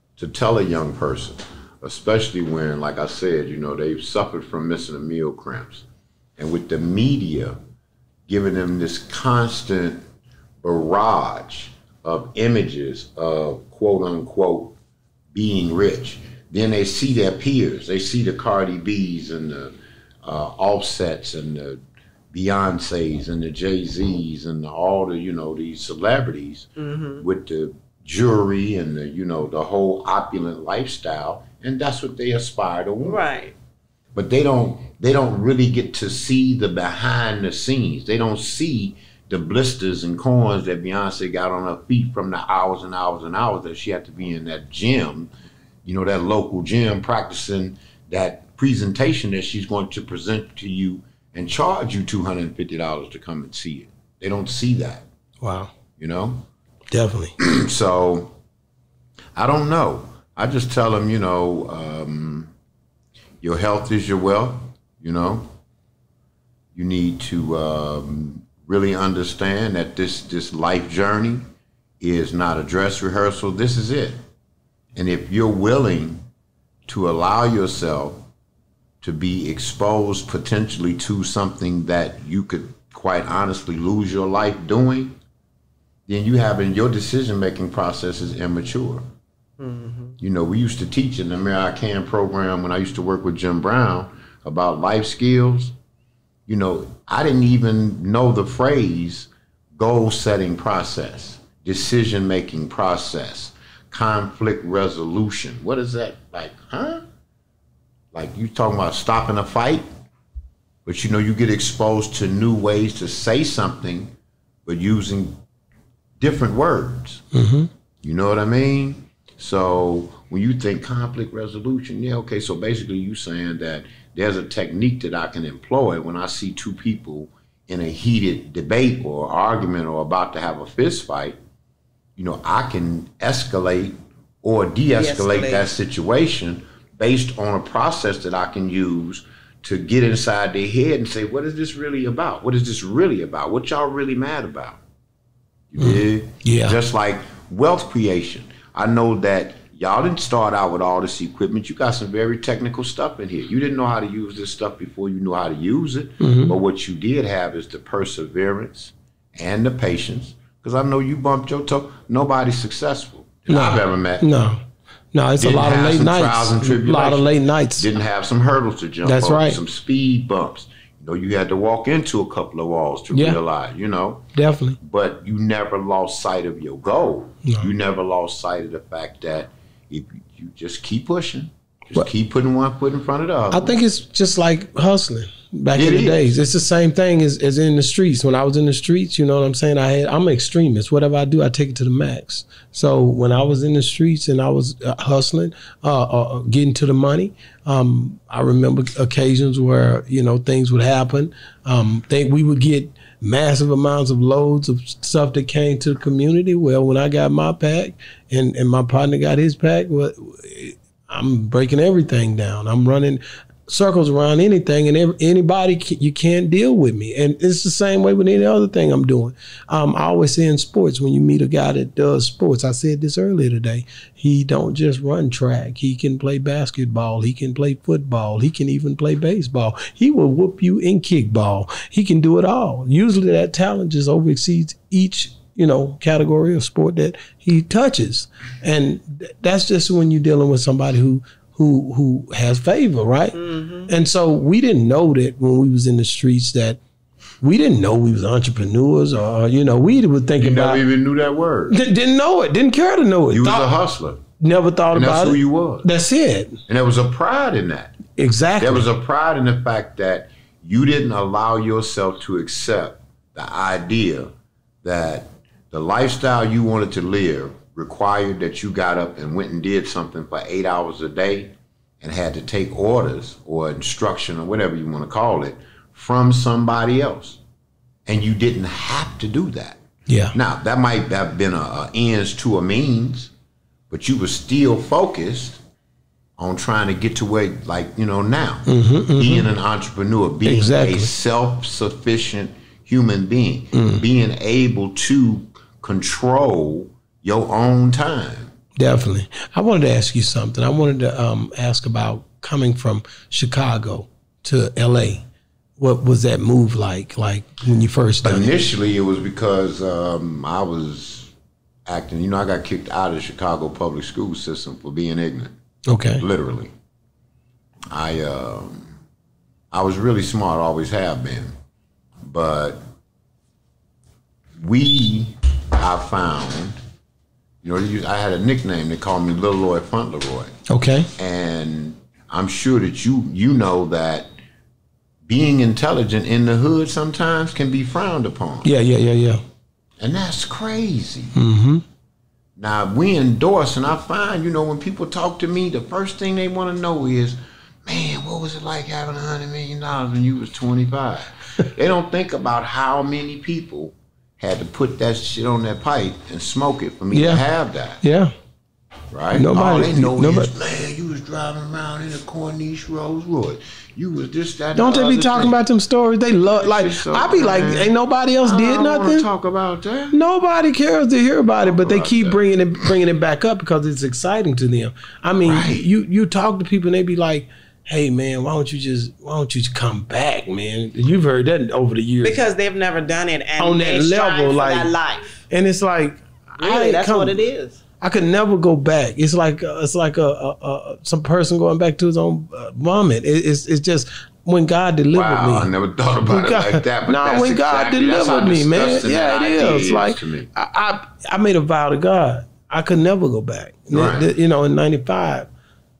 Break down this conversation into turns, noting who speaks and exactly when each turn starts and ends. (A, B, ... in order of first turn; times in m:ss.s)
0:00.2-0:05.8 A
0:06.4-0:07.6 A
0:08.3-0:10.0 A
0:10.6-0:14.8 A
0:15.3-0:21.8 A
0:22.3-0:26.7 A
0:26.8-0:27.2 B
0:27.2-0:33.2 A
0:33.0-0:33.5 B
0:34.1-0:45.3 A
0:45.8-0:55.0 A
0:55.4-0:55.7 C
0:56.0-0:56.4 A
0:56.9-0:57.3 C
0:57.4-0:58.3 A
0:59.4-1:02.5 A
1:03.4-1:05.5 A
1:06.7-1:11.4 A
1:12.0-1:14.2 A
1:14.9-1:16.2 A
1:16.9-1:18.2 A
1:19.0-1:25.2 A
1:26.1-1:29.0 A
1:29.6-1:30.2 B
1:30.2-1:35.7 A
1:36.5-1:47.0 A
1:48.1-1:49.9 A
1:50.8-1:54.1 A
1:54.6-1:55.4 A
1:56.2-1:57.2 A
1:57.3-1:57.7 C
1:58.0-2:11.4 A
2:12.2-2:24.8 A
2:15.0-2:15.7 B
2:25.7-2:44.3 A
2:25.8-2:26.8 C
2:36.2-2:36.5 C
2:43.5-2:47.9 C
2:45.4-2:54.3 A
2:49.0-2:49.6 C
2:53.1-2:53.4 C
2:54.3-2:54.8 C
2:54.8-3:03.8 A
3:03.5-4:03.4 C
3:05.7-3:06.4 A
4:03.3-4:03.9 B
4:03.9-4:06.8 C
4:07.4-4:10.8 C
4:10.4-4:11.8 A
4:11.7-4:13.7 C
4:13.3-4:14.2 A
4:14.4-4:16.6 C
4:14.9-4:15.9 A
4:16.7-4:18.0 A
4:18.2-4:18.8 C
4:18.6-4:24.3 A
4:24.8-4:37.4 A
4:38.0-4:39.8 A
4:40.1-4:40.3 C
4:40.3-4:43.3 A
4:43.9-4:45.6 A
4:46.4-4:58.5 A
4:48.7-4:49.5 C
4:50.4-4:51.1 C
4:53.7-4:54.0 C
4:58.8-5:05.2 C
5:05.8-5:08.5 C
5:08.2-5:11.3 A
5:11.8-5:15.6 A
5:15.9-5:16.2 C
5:16.2-5:16.7 A
5:17.9-5:18.9 A
5:19.7-5:21.5 A
5:22.2-5:22.8 A
5:24.6-5:26.8 A
5:27.6-5:30.5 A
5:30.7-5:31.1 C
5:31.1-5:34.3 A
5:35.3-5:38.7 A
5:38.6-5:39.4 C
5:40.0-5:41.4 A
5:41.3-5:41.8 C
5:42.6-5:58.0 A
5:57.1-5:57.4 C
5:58.0-5:58.3 C
5:59.1-6:05.6 A
5:59.3-6:00.5 C
6:04.7-6:09.2 C
6:06.5-6:10.2 A
6:10.1-6:22.4 C
6:11.6-6:12.9 A
6:15.4-6:15.8 A
6:22.2-6:25.4 B
6:23.6-6:24.9 C
6:25.5-6:27.4 C
6:26.6-6:27.8 B
6:28.0-6:35.7 C
6:35.1-6:40.5 A
6:36.2-6:45.5 C
6:43.9-6:44.3 A